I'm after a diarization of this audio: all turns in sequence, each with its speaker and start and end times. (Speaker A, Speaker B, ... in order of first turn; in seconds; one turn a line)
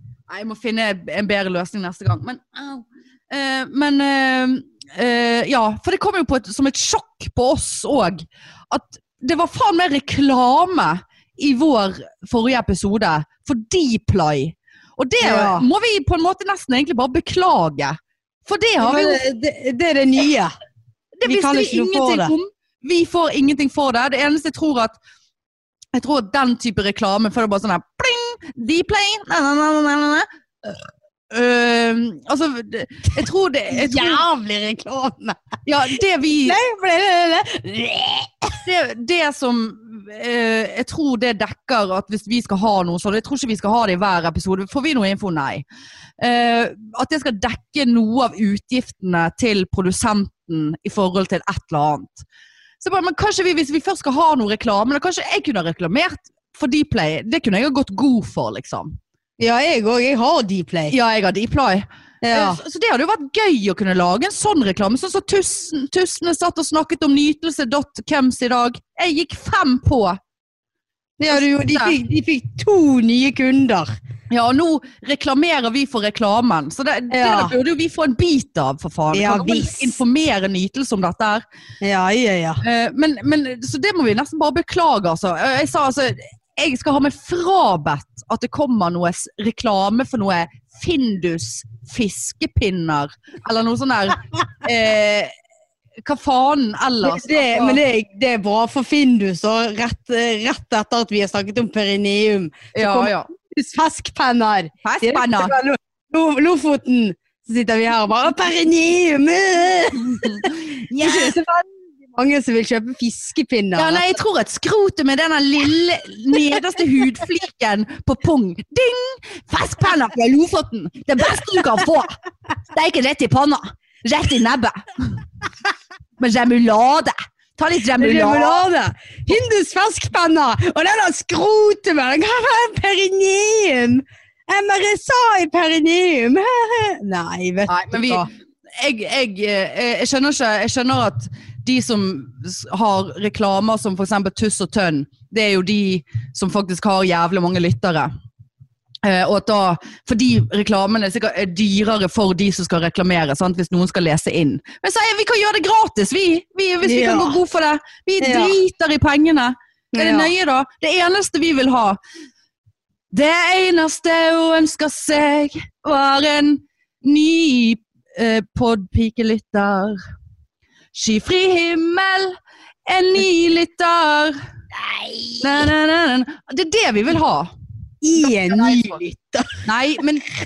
Speaker A: 0.3-19.2
Speaker B: 15.2-15.7
Speaker B: 18.8-20.5
Speaker A: 21.2-25.0
Speaker B: 21.2-22.3
Speaker A: 25.9-34.2
Speaker B: 33.7-35.4
Speaker A: 35.6-36.6
Speaker B: 36.4-38.6
Speaker A: 38.6-45.6
Speaker A: 46.2-52.2
Speaker A: 52.8-59.0
Speaker B: 59.4-60.9
Speaker A: 60.9-70.2
Speaker B: 62.2-62.6
Speaker B: 71.2-73.9
Speaker A: 71.3-72.0
Speaker A: 74.3-81.4
Speaker B: 77.1-77.5
Speaker B: 79.1-80.0
Speaker B: 81.8-82.6
Speaker A: 82.6-95.3
Speaker A: 96.0-97.8
Speaker B: 97.0-114.0
Speaker A: 102.7-103.3
Speaker A: 104.8-105.5
Speaker A: 110.2-111.4
Speaker A: 113.8-122.1
Speaker A: 122.7-125.2
Speaker A: 126.2-128.6
Speaker B: 128.0-138.3
Speaker A: 137.7-138.3
Speaker A: 138.8-148.1
Speaker A: 149.0-162.0
Speaker B: 156.8-157.4
Speaker B: 158.2-158.6
Speaker B: 159.9-160.3
Speaker A: 163.1-170.0
Speaker A: 170.9-174.4
Speaker B: 174.8-175.5
Speaker A: 175.4-177.5
Speaker B: 178.0-179.7
Speaker A: 178.2-179.0
Speaker A: 179.7-180.2